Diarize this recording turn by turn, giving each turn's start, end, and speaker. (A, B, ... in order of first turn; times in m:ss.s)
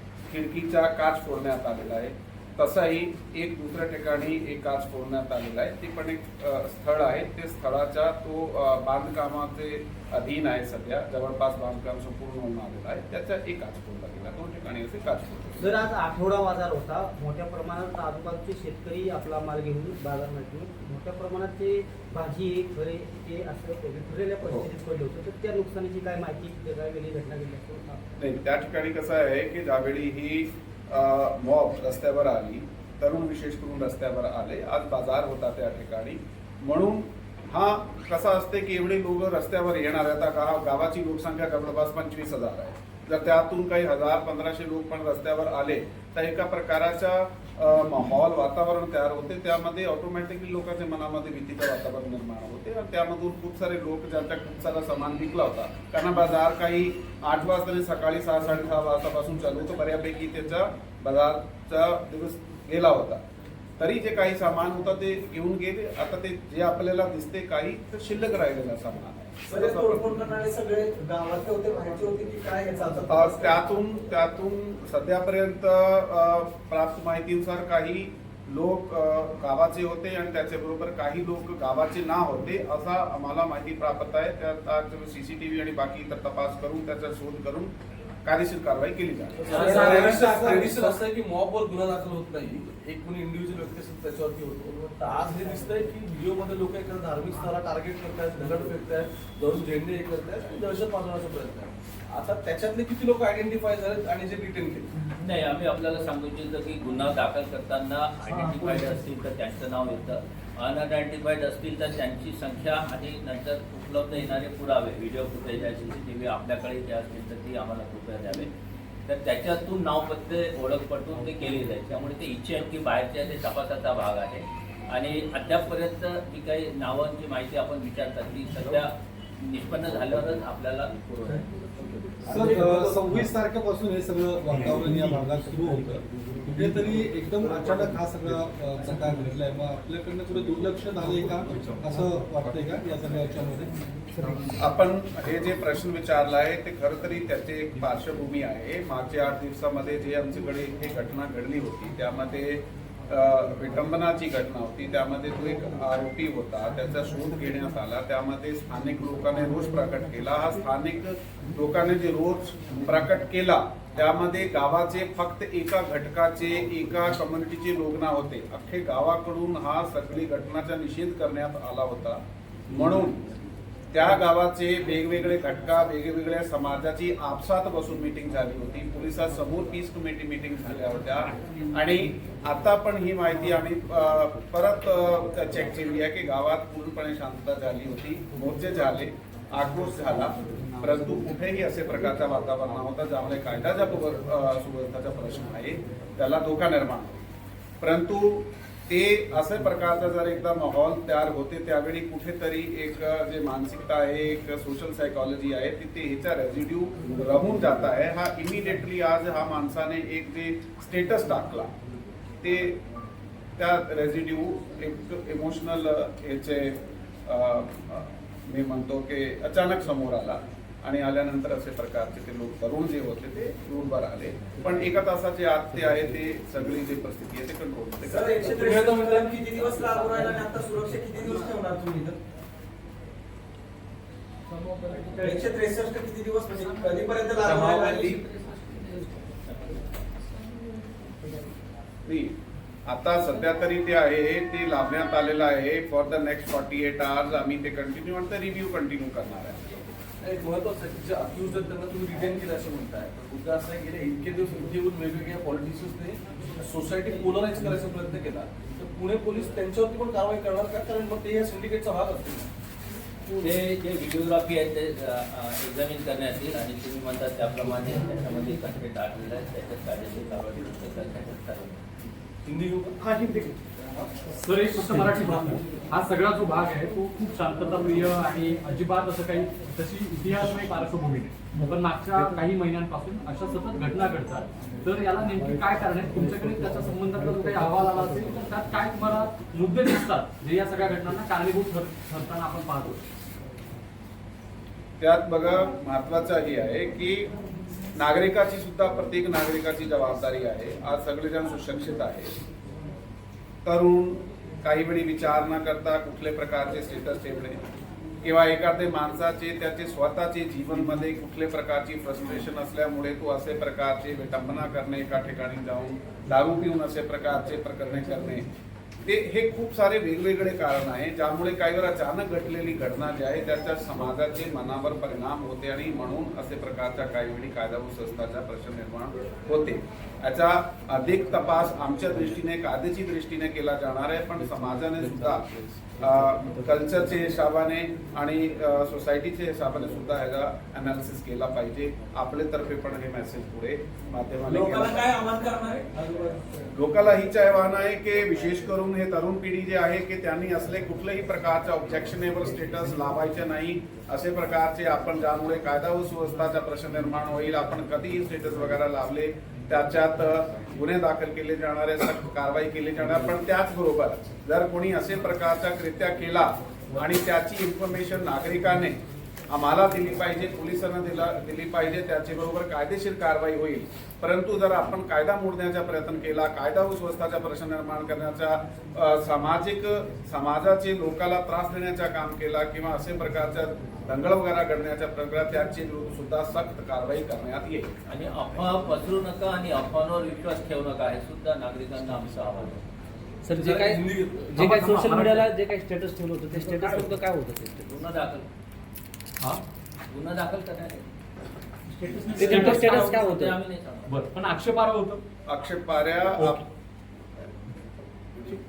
0:00.3-0:15.7 A
0:15.6-0:28.0 B
0:28.2-1:03.2 A
1:03.8-1:10.1 A
1:09.5-1:13.6 C
1:13.1-1:27.7 A
1:28.2-1:30.2 A
1:29.4-1:44.9 D
1:29.8-1:30.5 E
1:45.2-1:58.5 F
1:59.0-2:11.5 F
2:11.8-2:13.2 D
2:12.3-2:23.7 G
2:24.6-2:53.3 A
2:53.9-3:17.2 A
3:17.8-3:31.7 A
3:32.4-3:32.8 A
3:33.6-3:48.6 A
3:48.0-3:52.2 C
3:48.4-3:50.4 D
3:55.2-3:58.2 C
3:59.5-3:59.7 F
4:02.0-4:02.3 A
4:02.8-4:09.8 A
4:10.2-4:22.5 D
4:23.4-4:31.8 F
4:32.4-4:33.0 D
4:33.0-4:33.5 C
4:33.7-4:34.1 D
4:34.4-4:53.0 E
4:55.0-4:57.3 A
4:57.9-5:02.3 A
5:03.6-5:07.6 A
5:08.2-5:18.5 A
5:19.0-5:35.4 A
5:36.0-5:45.2 A
5:44.4-5:46.4 C
5:46.7-6:09.0 A
6:09.5-6:27.9 A
6:28.1-6:32.8 F
6:33.4-6:37.9 H
6:33.5-6:34.7 D
6:34.6-6:35.5 E
6:37.8-6:38.4 F
6:40.1-6:41.1 F
6:42.0-6:43.6 H
6:42.3-6:43.2 E
6:42.4-6:44.1 F
6:44.1-6:45.2 E
6:45.4-6:46.6 A